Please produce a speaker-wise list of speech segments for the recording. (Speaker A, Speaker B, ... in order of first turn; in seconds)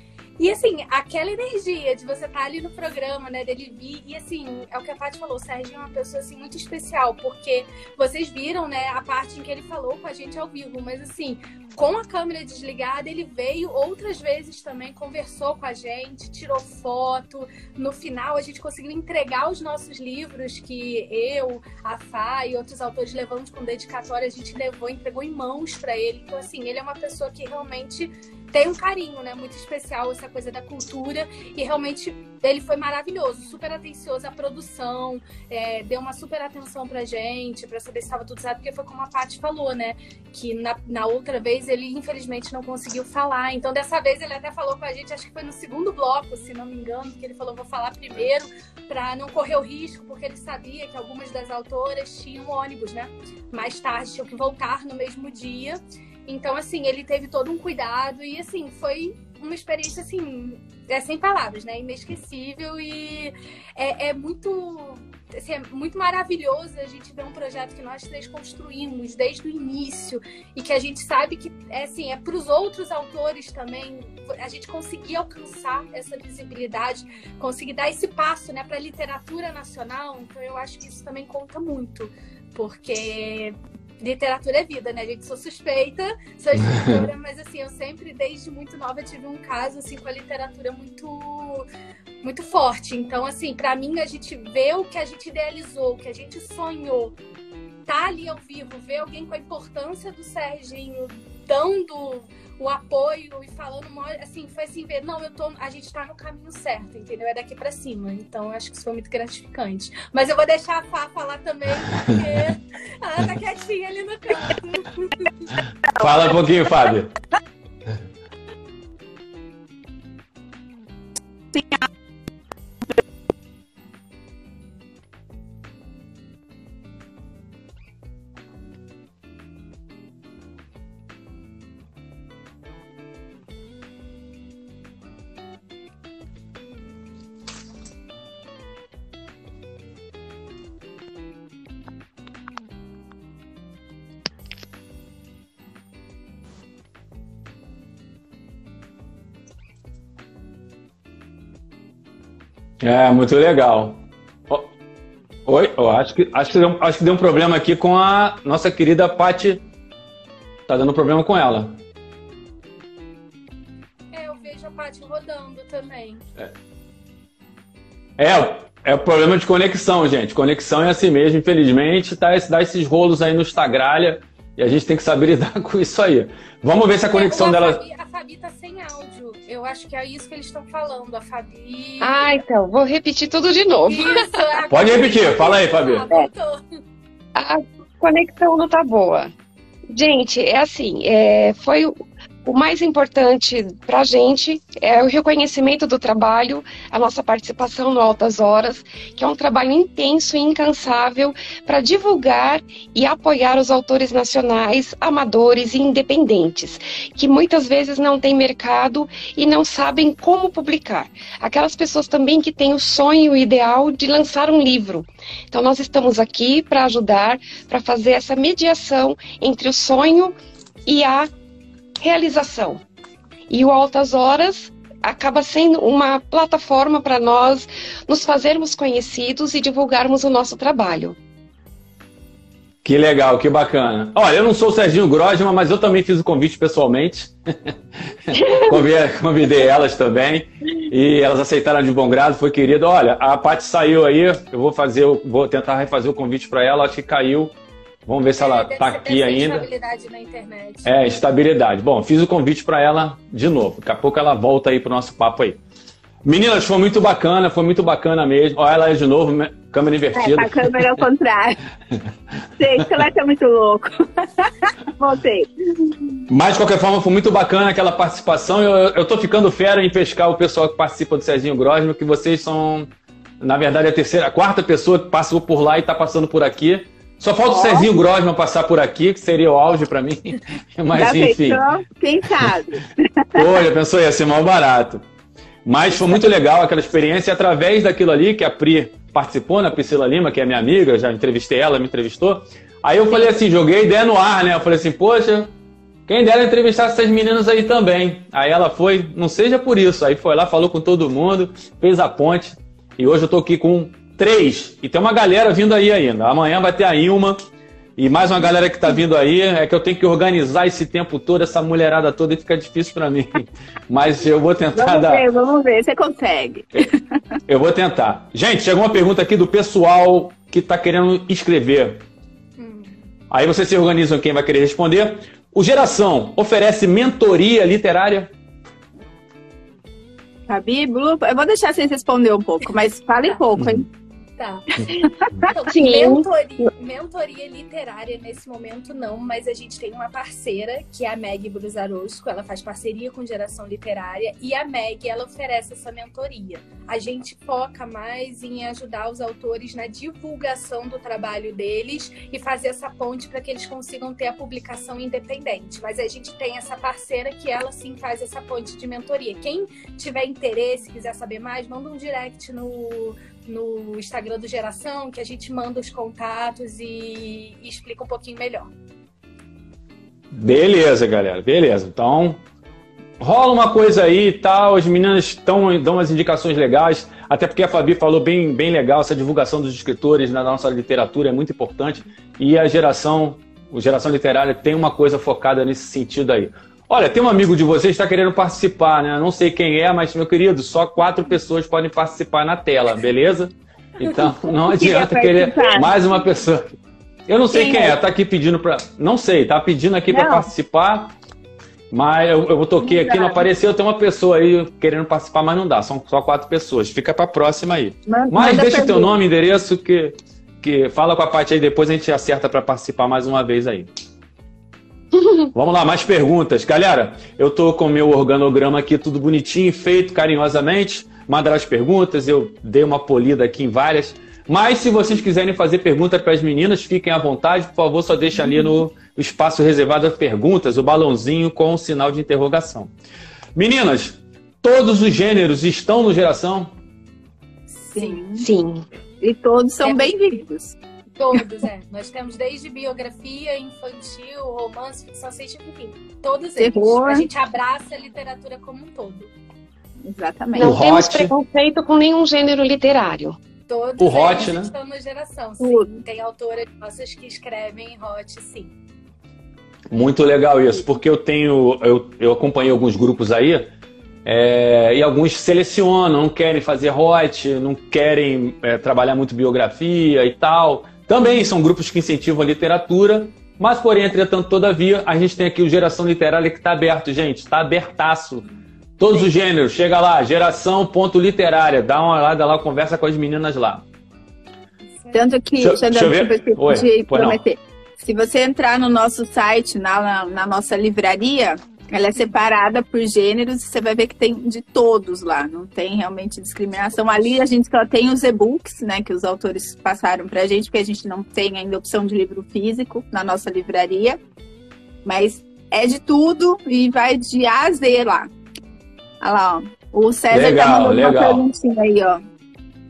Speaker A: 0.4-91.7, 92.2-97.2, 97.9-115.5, 164.1-166.2, 177.1-182.4, 183.9-186.6, 248.4-250.9, 322.6-323.0, 334.4-368.7, 437.7-438.2, 439.8-440.4, 441.2-449.3, 453.7-458.7
Speaker B: 116.0-117.1, 152.8-154.7, 155.5-159.6, 160.7-161.8, 168.2-177.8, 184.7-186.1, 232.8-237.8, 238.3-247.5, 248.1-249.7, 250.8-255.6, 256.2-260.7, 266.3-281.6, 283.4-285.0, 285.7-295.5, 296.1-307.4, 308.0-315.2, 317.5-322.0, 323.3-328.3, 370.3-372.4, 373.2-396.7, 397.3-401.1, 401.9-413.9, 415.5-432.9, 433.6-436.8, 450.6-451.3, 454.0-454.7, 459.9-463.7, 464.2-478.5, 479.0-483.9, 485.6-487.4, 510.3-511.4
Speaker C: 121.5-121.9, 260.1-261.6, 262.6-265.9, 277.5-277.9, 280.9-283.4, 314.8-316.9, 330.5-333.9, 394.7-395.9, 397.5-398.0, 400.1-400.5, 402.8-403.4, 408.1-409.1, 437.9-438.5, 439.2-440.8, 446.6-447.3, 450.0-450.8, 455.6-455.9, 485.1-504.2, 505.1-508.3, 509.2-512.2
Speaker D: 182.0-184.7, 187.3-189.3, 189.9-220.3, 220.9-221.3, 222.0-222.8, 223.5-231.2, 238.3-238.8, 335.7-336.3, 415.1-415.4, 438.4-438.9, 450.6-453.4